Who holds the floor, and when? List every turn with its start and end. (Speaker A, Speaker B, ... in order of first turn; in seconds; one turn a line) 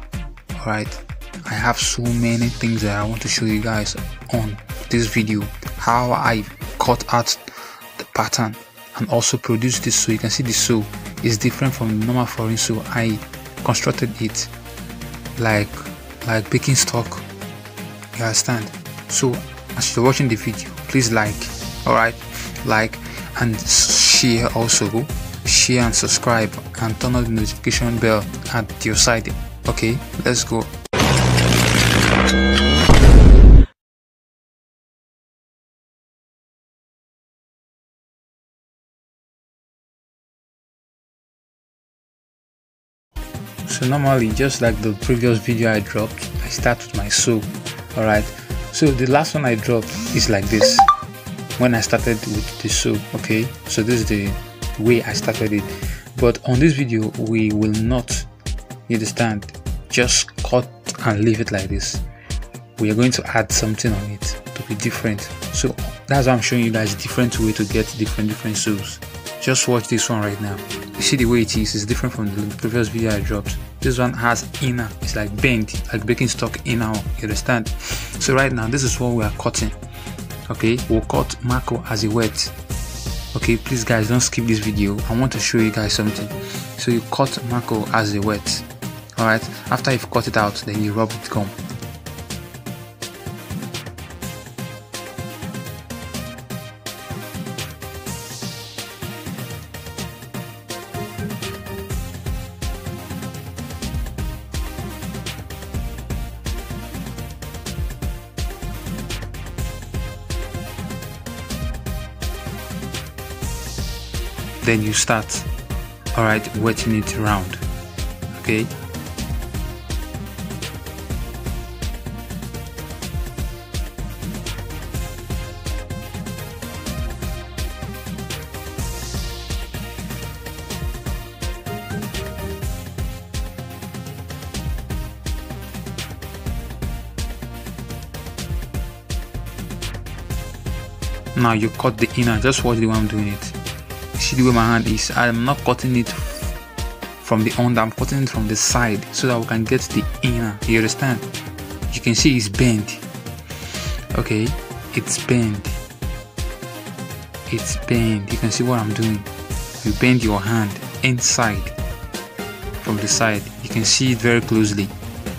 Speaker A: 0.6-14.5
Speaker A: 15.4-17.2
Speaker A: 18.1-30.7
Speaker A: 43.7-50.9
Speaker A: 51.6-58.3
Speaker A: 58.9-62.0
Speaker A: 62.8-79.8
Speaker A: 80.5-82.5
Speaker A: 83.3-91.6
Speaker A: 114.6-115.5
Speaker A: 116.1-117.6
Speaker A: 118.3-118.7
Speaker A: 141.3-143.6
Speaker A: 144.2-146.6
Speaker A: 147.2-151.3
Speaker A: 151.9-153.1
Speaker A: 154.1-155.8
Speaker A: 157.5-159.3
Speaker A: 159.8-161.8
Speaker A: 162.8-164.9